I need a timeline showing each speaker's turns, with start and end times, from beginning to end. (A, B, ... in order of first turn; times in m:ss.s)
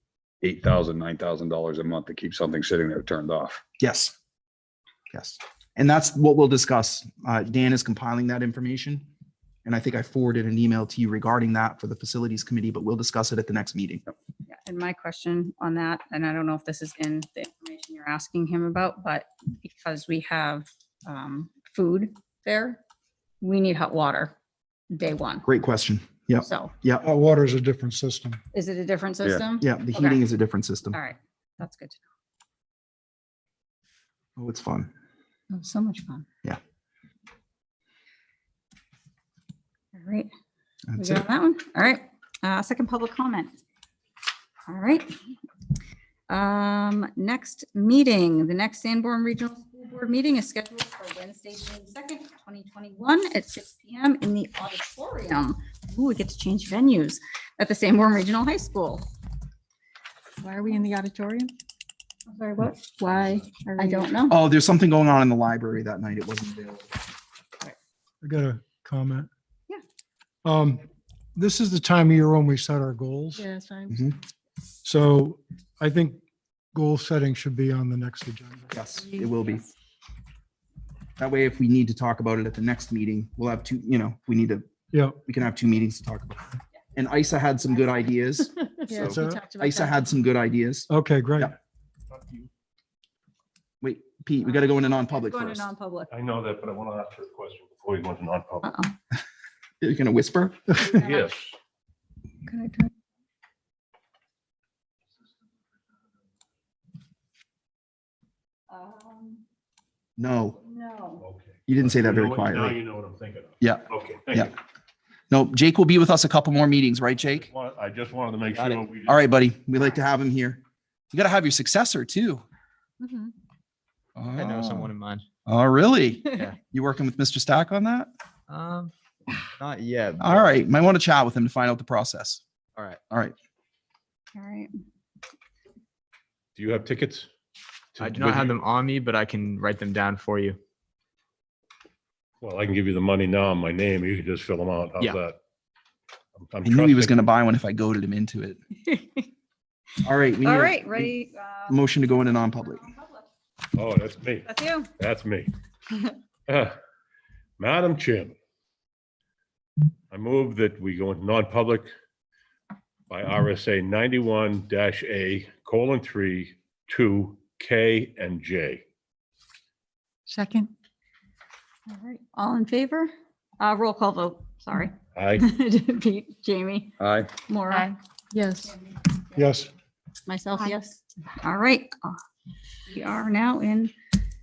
0:00.4-0:03.6 A
0:03.8-0:04.1 B
0:05.1-0:09.1 B
0:09.6-0:14.0 B
0:14.5-0:22.8 C
0:23.4-0:24.4 C
0:24.9-0:25.4 C
0:25.4-0:27.1 B
0:26.4-0:26.7 C
0:27.0-0:28.4 D
0:28.5-0:30.2 C
0:29.6-0:31.0 B
0:30.9-0:32.0 C
0:34.4-0:34.9 B
0:35.5-0:36.3 C
0:39.9-0:40.3 C
0:40.9-0:41.2 B
0:41.0-0:43.5 C
0:44.7-0:45.1 C
0:46.3-0:59.1 C
1:00.4-1:01.5 E
1:02.3-1:04.4 C
1:03.7-1:04.1 E
1:04.3-1:07.0 B
1:08.2-1:09.3 D
1:10.4-1:10.8 D
1:11.4-1:13.4 D
1:13.4-1:14.0 E
1:14.8-1:16.2 D
1:16.7-1:18.8 D
1:18.7-1:19.7 B
1:21.2-1:24.7 B
1:25.2-1:30.9 B
1:28.9-1:29.9 E
1:29.0-1:29.4 D
1:30.9-1:31.5 D
1:32.1-1:32.5 F
1:33.8-1:35.7 B
1:34.4-1:36.1 C
1:36.1-1:38.7 F
1:38.6-1:38.9 C
1:39.8-1:40.6 B
1:40.8-1:41.3 C
1:41.0-1:41.6 F
1:42.5-1:42.9 C
1:48.7-1:49.4 C
1:50.2-1:50.6 B
1:50.6-1:51.2 C
1:51.2-1:54.5 F
1:51.7-1:52.8 B
1:53.6-1:54.5 B
1:55.3-1:57.5 B
1:57.2-1:59.2 F
1:58.8-2:00.6 B
2:01.1-2:02.4 B
2:04.2-2:04.9 B
2:04.3-2:05.2 G
2:05.5-2:08.1 B
2:08.5-2:08.9 G
2:09.6-2:10.5 G
2:10.2-2:12.4 B
2:14.3-2:14.7 C
2:16.6-2:17.3 F
2:18.0-2:18.6 F
2:18.0-2:20.6 G
2:22.4-2:25.4 F
2:26.4-2:27.2 F
2:26.6-2:28.6 B
2:28.9-2:29.3 C
2:30.0-2:31.1 B
2:30.4-2:33.3 C
2:31.7-2:32.8 B
2:33.7-2:35.5 F
2:34.4-2:34.9 C
2:36.5-2:36.8 F
2:37.6-2:38.4 F
2:40.1-2:41.9 F
2:43.1-2:48.8 F
2:50.3-2:50.7 E
2:51.9-2:56.9 C
2:55.2-2:55.5 F
2:57.0-2:57.3 A
2:57.5-2:57.9 C
2:57.7-2:58.7 E
2:59.4-2:59.7 D
3:00.3-3:02.2 C
3:02.9-3:03.9 C